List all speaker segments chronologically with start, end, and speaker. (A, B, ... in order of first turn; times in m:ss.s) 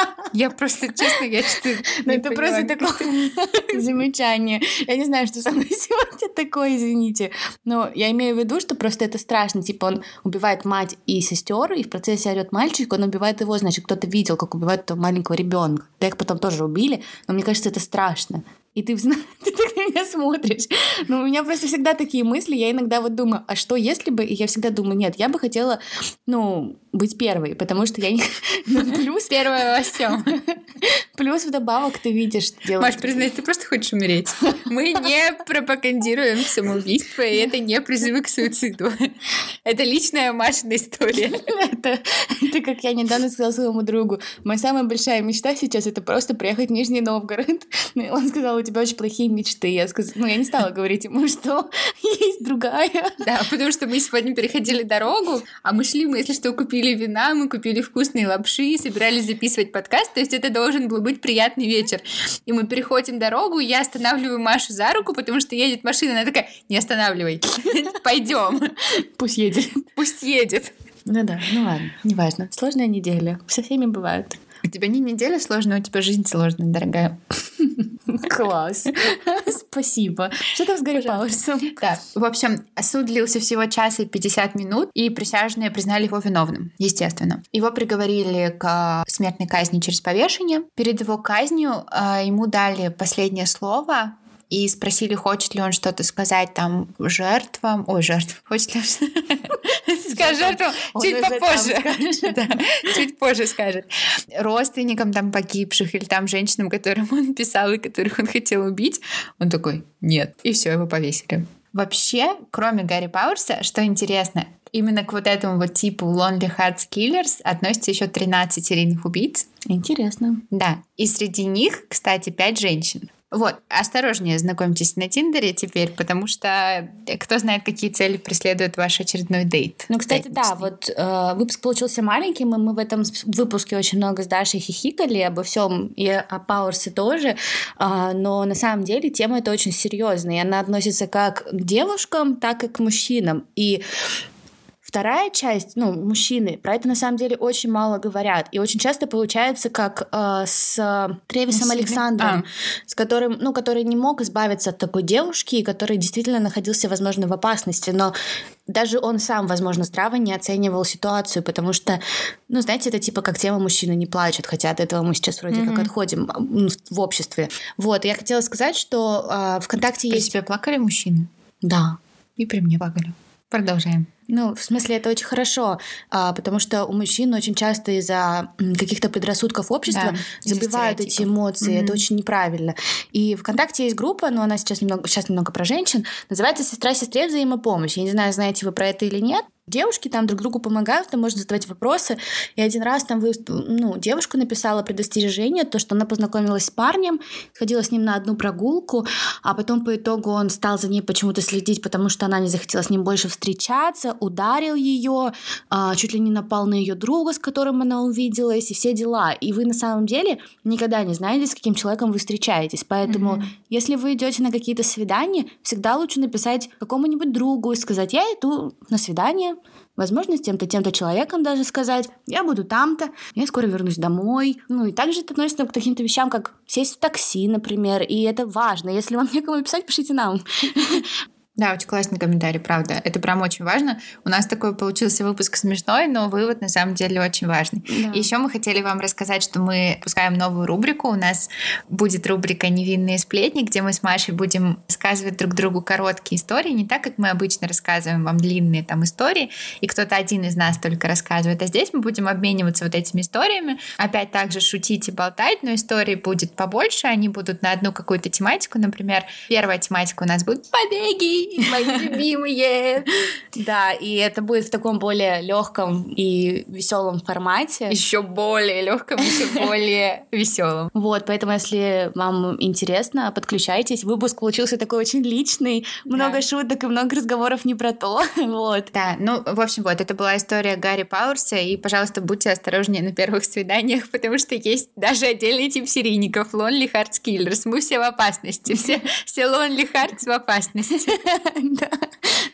0:00.3-0:03.2 A
0:02.0-0:29.4 B
0:29.3-0:30.4 A
0:30.3-0:33.3 B
0:32.8-0:39.0 A
0:39.6-0:41.5 A
0:41.3-0:53.1 B
0:53.2-1:08.9 A
1:09.2-1:09.8 B
1:10.0-1:10.7 A
1:11.1-1:14.4 B
1:14.7-1:17.2 A
1:18.1-1:21.7 B
1:21.8-1:59.4 A
1:40.0-1:42.4 B
1:59.7-2:00.4 B
2:00.5-2:10.7 A
2:09.9-2:23.8 B
2:24.8-2:38.1 B
2:31.5-2:32.4 A
2:38.7-2:50.3 B
2:45.5-2:45.9 A
2:50.1-2:51.3 A
2:51.6-2:52.0 B
2:52.4-2:54.1 A
2:54.3-3:51.1 B
2:59.9-3:02.0 A
3:33.0-3:33.5 A
3:51.6-4:23.1 A
3:57.9-3:58.3 B
4:23.5-4:28.0 B
4:27.9-4:30.9 A
4:30.9-4:38.9 B
4:36.1-4:36.4 A
4:38.9-4:51.2 A
4:51.1-4:52.0 B